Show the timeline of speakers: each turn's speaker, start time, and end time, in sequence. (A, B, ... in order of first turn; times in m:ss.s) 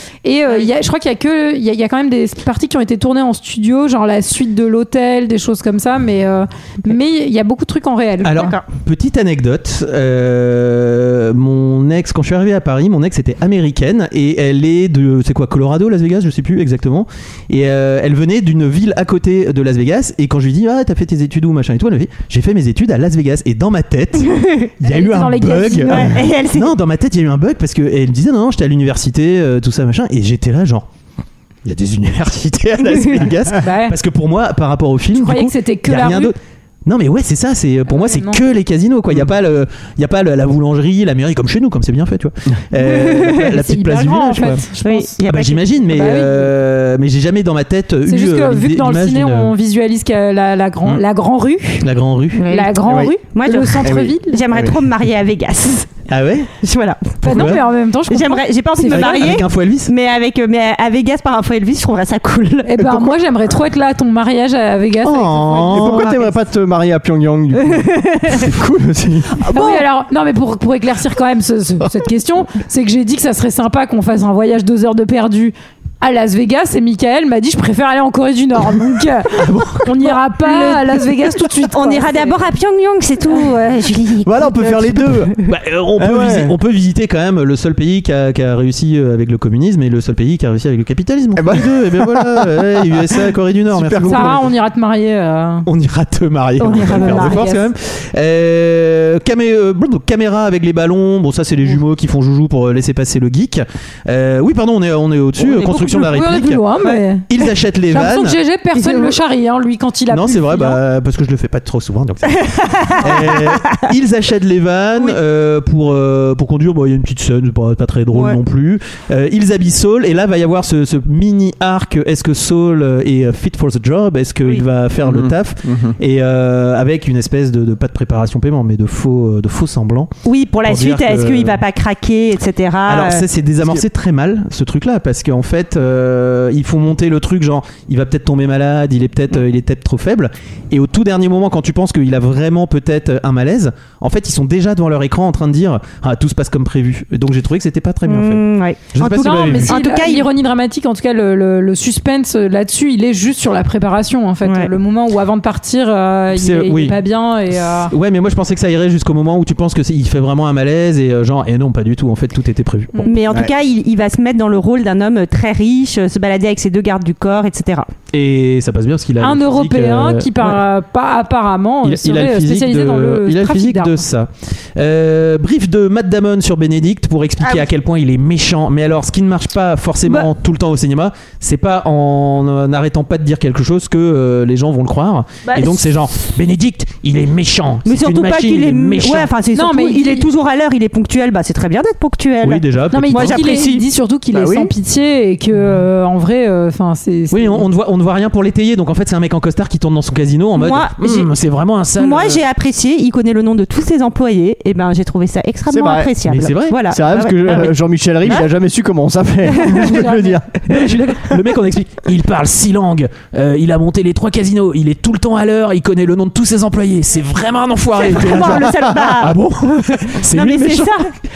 0:00.2-0:08.5 A
0:08.2-0:30.9 B
0:08.4-0:08.6 C
0:24.2-0:24.7 C
0:24.8-0:26.1 A
0:25.9-0:26.7 C
0:31.6-0:44.6 B
0:33.5-0:34.0 A
0:35.1-0:36.3 A
0:37.9-0:38.4 A
0:42.8-0:45.2 A
0:44.8-0:45.7 C
0:45.3-0:49.5 B
0:45.9-0:46.5 A
0:48.1-0:51.9 A
0:51.8-0:52.4 B
0:52.4-0:55.9 C
0:52.4-0:54.4 A
0:52.8-0:53.2 D
0:53.8-0:54.8 D
0:56.1-0:56.5 B
0:56.6-1:03.0 C
0:57.2-0:57.6 B
0:57.2-0:59.4 A
0:58.9-0:59.9 B
1:02.7-1:06.2 A
1:05.0-1:06.2 B
1:05.6-1:09.3 D
1:07.8-1:08.3 C
1:09.5-1:22.4 A
1:09.6-1:09.8 C
1:19.4-1:20.1 B
1:20.4-1:20.8 C
1:21.7-1:25.4 C
1:24.2-1:25.3 D
1:25.4-1:34.5 B
1:26.0-1:26.5 D
1:31.4-1:34.4 D
1:34.0-1:35.7 A
1:35.7-1:46.6 B
1:36.6-1:37.5 C
1:36.9-1:37.6 A
1:45.4-1:46.1 C
1:45.8-1:47.3 A
1:47.3-1:48.4 B
1:47.9-1:50.8 A
1:48.8-1:49.2 C
1:50.1-2:10.1 B
1:52.4-1:53.8 C
1:58.1-1:58.4 C
2:05.0-2:06.0 D
2:10.2-2:13.3 C
2:10.6-2:11.6 B
2:12.9-2:29.8 B
2:28.1-2:30.3 C
2:29.2-2:37.9 A
2:34.4-2:34.7 C
2:36.3-2:37.0 B
2:37.9-2:43.1 B
2:43.0-2:47.9 C
2:48.1-2:50.6 B
2:49.2-2:54.0 A
2:51.8-3:09.3 B
3:05.5-3:05.8 C
3:07.9-3:13.9 C
3:09.5-3:10.3 A
3:12.4-3:13.4 B
3:12.9-3:17.7 A
3:14.3-3:14.7 D
3:17.3-3:22.4 B
3:20.6-3:21.3 C
3:22.0-3:27.7 C
3:25.7-3:26.1 D
3:26.3-3:26.8 B
3:26.8-3:30.5 D
3:29.6-3:30.0 C
3:29.8-3:30.3 A
3:30.7-3:41.0 B
3:38.0-3:41.1 C